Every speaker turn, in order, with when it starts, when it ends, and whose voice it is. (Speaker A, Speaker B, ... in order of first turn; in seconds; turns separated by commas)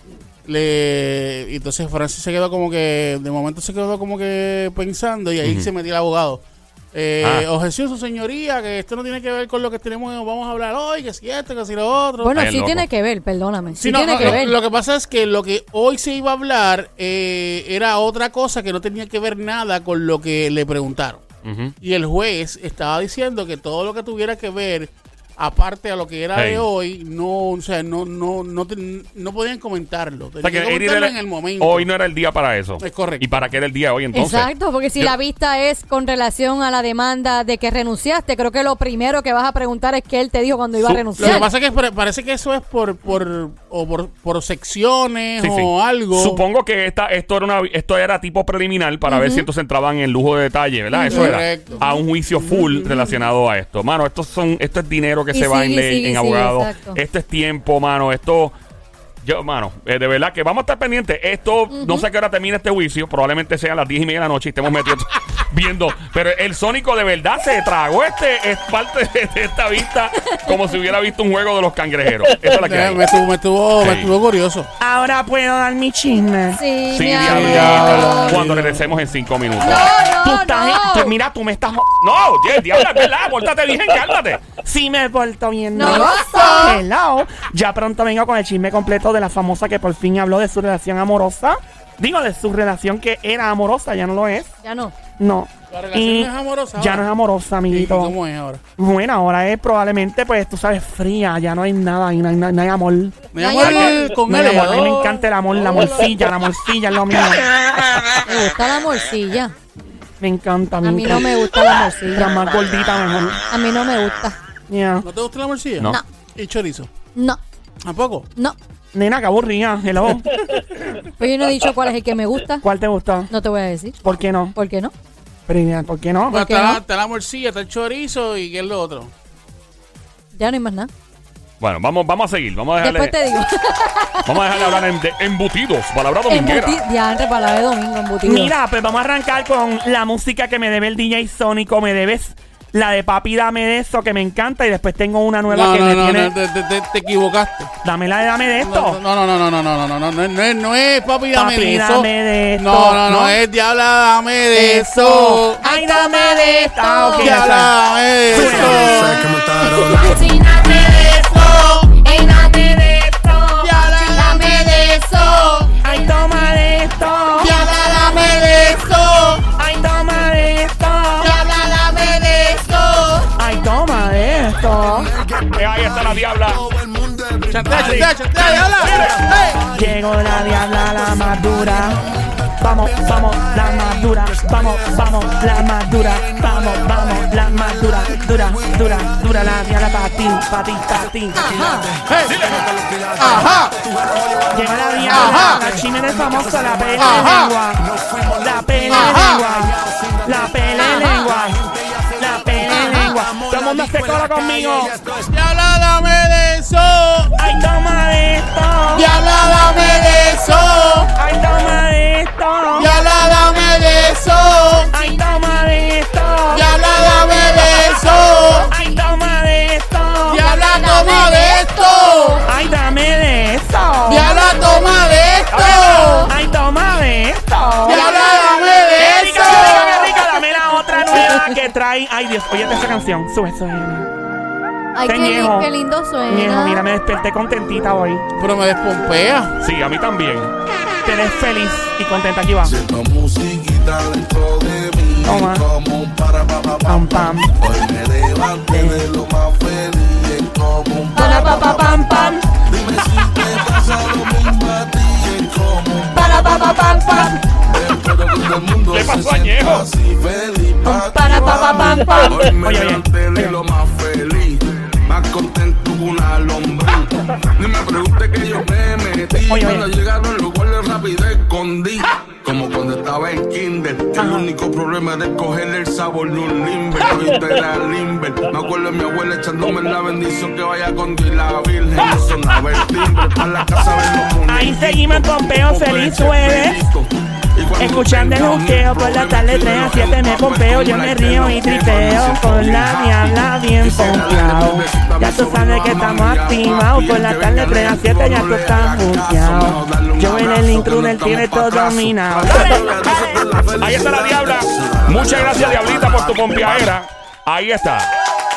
Speaker A: 0.4-12.3, Speaker B: 5.4-5.7, Speaker B: 7.2-7.5, Speaker C: 12.2-14.6, Speaker B: 12.3-12.8, Speaker A: 13.8-21.2, Speaker B: 21.4-21.7, Speaker A: 21.8-31.9, Speaker B: 26.3-26.6, Speaker B: 30.4-35.1, Speaker A: 32.8-33.3, Speaker C: 34.1-41.5, Speaker B: 40.8-41.4, Speaker A: 41.2-46.4, Speaker B: 45.4-58.5, Speaker C: 49.1-49.5, Speaker C: 50.9-52.0, Speaker A: 51.1-53.1, Speaker C: 55.3-57.0, Speaker B: 59.2-73.1, Speaker C: 61.7-62.0, Speaker A: 72.6-74.7, Speaker B: 73.8-74.1, Speaker D: 74.8-76.6, Speaker C: 76.5-78.4, Speaker B: 76.9-79.9, Speaker A: 77.2-78.8, Speaker C: 79.6-81.1, Speaker D: 80.2-82.0, Speaker B: 82.0-84.5, Speaker D: 84.6-94.5, Speaker C: 85.7-86.8, Speaker A: 85.8-86.8, Speaker C: 94.6-94.9, Speaker D: 95.2-98.1, Speaker A: 95.7-97.1, Speaker A: 97.7-98.6, Speaker D: 98.8-107.5, Speaker A: 103.3-106.1, Speaker C: 103.4-104.2, Speaker C: 108.2-109.5, Speaker D: 110.2-111.4, Speaker C: 110.8-112.3, Speaker D: 112.1-113.4, Speaker C: 113.5-114.3, Speaker D: 114.7-115.1, Speaker A: 115.0-116.9, Speaker C: 117.1-117.4, Speaker A: 117.8-118.3, Speaker D: 118.9-120.4, Speaker C: 121.2-122.6, Speaker D: 122.6-123.3, Speaker C: 123.3-124.0, Speaker D: 124.0-124.5, Speaker C: 124.5-124.9, Speaker D: 125.5-126.8, Speaker A: 126.3-129.1, Speaker C: 130.3-130.9, Speaker B: 131.6-133.1, Speaker C: 132.8-134.8, Speaker B: 134.2-136.8, Speaker C: 136.3-138.5, Speaker D: 138.2-146.3, Speaker A: 145.5-147.7, Speaker D: 147.8-149.0, Speaker A: 148.6-155.6, Speaker D: 151.3-153.4, Speaker D: 154.5-157.8, Speaker C: 155.6-157.4, Speaker A: 157.2-159.2, Speaker D: 158.3-159.1, Speaker E: 158.3-160.3, Speaker F: 159.8-161.4, Speaker C: 160.2-160.7, Speaker A: 160.7-161.9, Speaker C: 162.0-165.5, Speaker F: 162.2-162.9, Speaker A: 163.6-165.7, Speaker D: 165.8-167.7, Speaker A: 167.4-169.4, Speaker D: 169.5-171.4, Speaker A: 171.2-171.5, Speaker F: 171.3-173.1, Speaker C: 171.7-172.2, Speaker D: 173.3-175.1, Speaker E: 174.9-189.6, Speaker B: 175.5-176.6, Speaker A: 177.5-179.7, Speaker B: 177.7-179.2, Speaker D: 179.7-191.5, Speaker E: 191.3-197.2, Speaker C: 191.4-191.9, Speaker A: 192.1-192.6, Speaker B: 192.3-192.6, Speaker A: 193.2-193.7, Speaker D: 194.5-197.8, Speaker A: 195.1-195.6, Speaker A: 197.0-197.5, Speaker E: 197.7-200.7, Speaker D: 198.4-201.6, Speaker A: 198.9-199.5, Speaker C: 200.8-201.3, Speaker E: 201.3-205.3, Speaker D: 202.2-205.0, Speaker A: 205.3-207.3, Speaker D: 207.4-209.1, Speaker A: 208.9-211.1, Speaker D: 211.1-212.9, Speaker A: 212.7-214.9, Speaker D: 214.9-216.7, Speaker A: 216.5-218.7, Speaker D: 218.7-220.5, Speaker A: 220.3-222.4, Speaker C: 220.4-222.4, Speaker D: 222.4-224.5, Speaker A: 224.1-226.3, Speaker F: 224.7-225.3, Speaker B: 225.5-225.8, Speaker C: 225.6-226.3, Speaker D: 225.6-228.4, Speaker A: 227.8-230.1, Speaker C: 227.9-228.6, Speaker D: 228.9-234.1, Speaker C: 234.9-236.8, Speaker D: 235.0-235.7, Speaker D: 236.3-238.2, Speaker A: 238.4-239.5, Speaker B: 239.6-240.5, Speaker D: 241.0-242.8, Speaker E: 242.6-306.9, Speaker D: 245.2-245.7, Speaker D: 246.8-247.6, Speaker D: 248.7-249.1, Speaker C: 251.2-251.6, Speaker D: 251.2-252.4, Speaker D: 256.1-257.4, Speaker B: 258.9-259.9, Speaker D: 260.8-263.6, Speaker C: 261.2-262.2, Speaker D: 269.4-269.9, Speaker D: 274.1-274.5, Speaker B: 282.7-283.2, Speaker D: 284.5-286.8, Speaker D: 287.8-303.4, Speaker B: 302.5-303.1, Speaker B: 303.8-308.1